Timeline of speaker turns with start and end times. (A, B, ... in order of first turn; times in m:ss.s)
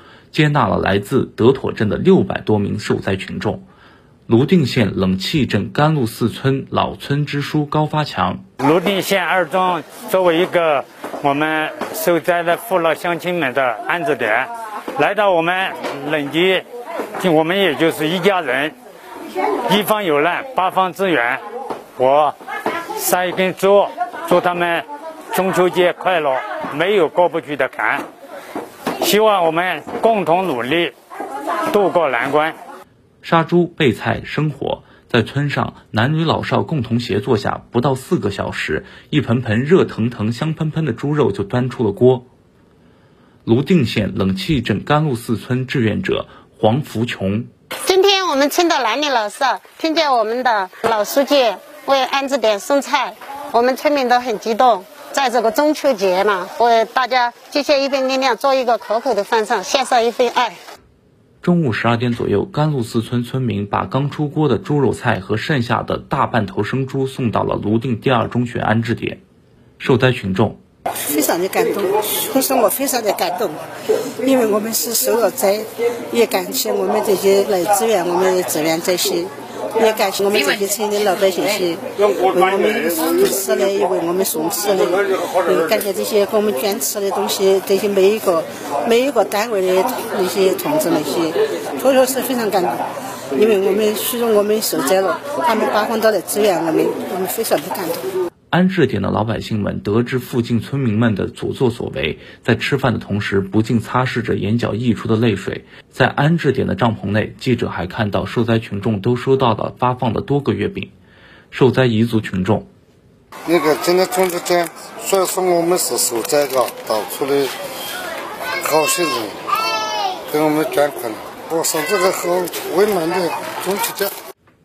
0:00.3-0:03.6 A
0:04.3-0:08.4 A
0:08.6-0:16.6 B
0:17.2-0:18.7 B
0:19.6-0:21.4 B
0:22.0-0:22.4 B
0:23.0-0:28.0 B
0:29.0-0:30.9 B
0:31.7-0:32.6 B
0:33.2-0:42.3 A
0:43.4-0:47.5 A
0:47.8-1:00.6 C
1:01.4-1:09.2 A
1:09.8-1:10.6 A
1:11.1-1:13.6 D
1:14.2-1:32.8 D
1:33.3-1:38.1 D
1:38.5-1:50.9 A
1:51.5-1:52.7 A
1:53.4-1:57.5 E
1:58.6-1:59.4 E
2:00.2-2:04.1 E